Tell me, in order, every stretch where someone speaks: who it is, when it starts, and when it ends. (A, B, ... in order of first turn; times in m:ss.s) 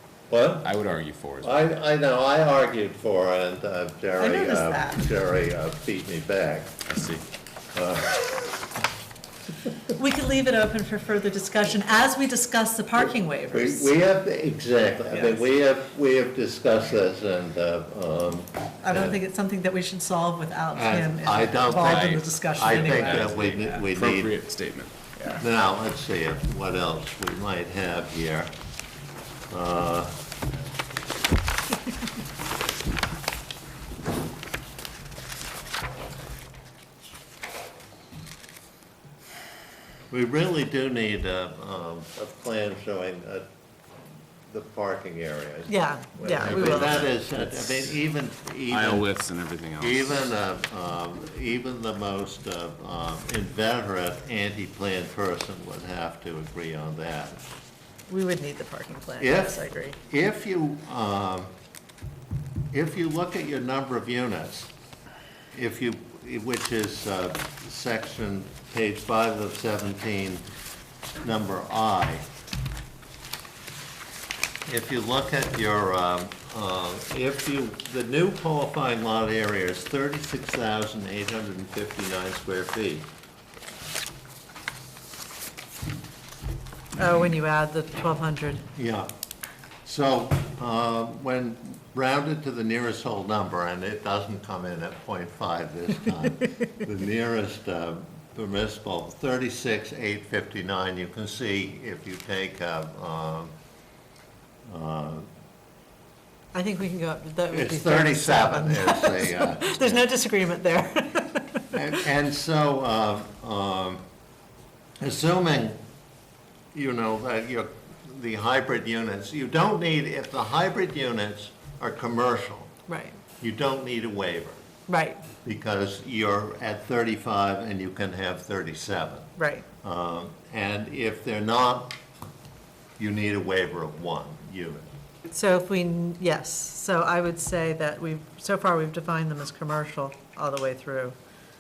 0:00.3-0:00.7 A
0:00.6-0:01.6 B
0:01.4-0:06.8 A
0:04.2-0:05.1 C
0:06.8-0:07.2 B
0:07.7-0:08.6 A
0:09.9-0:13.9 C
0:13.5-0:19.2 A
0:15.1-0:15.4 C
0:18.8-0:23.5 C
0:20.7-0:24.3 A
0:21.8-0:25.0 B
0:25.4-0:28.5 A
0:29.5-0:30.2 A
0:40.1-0:43.4 A
0:44.5-0:49.1 A
0:45.7-0:47.2 C
0:48.7-0:50.2 B
0:49.8-0:57.4 A
0:58.1-1:00.0 C
0:59.2-1:01.5 A
1:02.7-1:04.7 A
1:05.5-1:10.4 A
1:11.2-1:12.3 A
1:14.7-1:23.1 A
1:27.0-1:28.7 C
1:28.7-1:29.1 A
1:29.8-1:43.5 A
1:44.6-1:45.3 A
1:46.5-1:52.0 C
1:47.5-1:50.0 A
1:51.7-1:54.0 A
1:55.0-1:55.8 A
1:56.7-2:02.7 A
2:02.9-2:03.2 C
2:03.4-2:04.6 A
2:04.9-2:05.2 C
2:05.4-2:12.0 A
2:09.4-2:09.6 C
2:13.0-2:14.9 A
2:15.3-2:21.2 C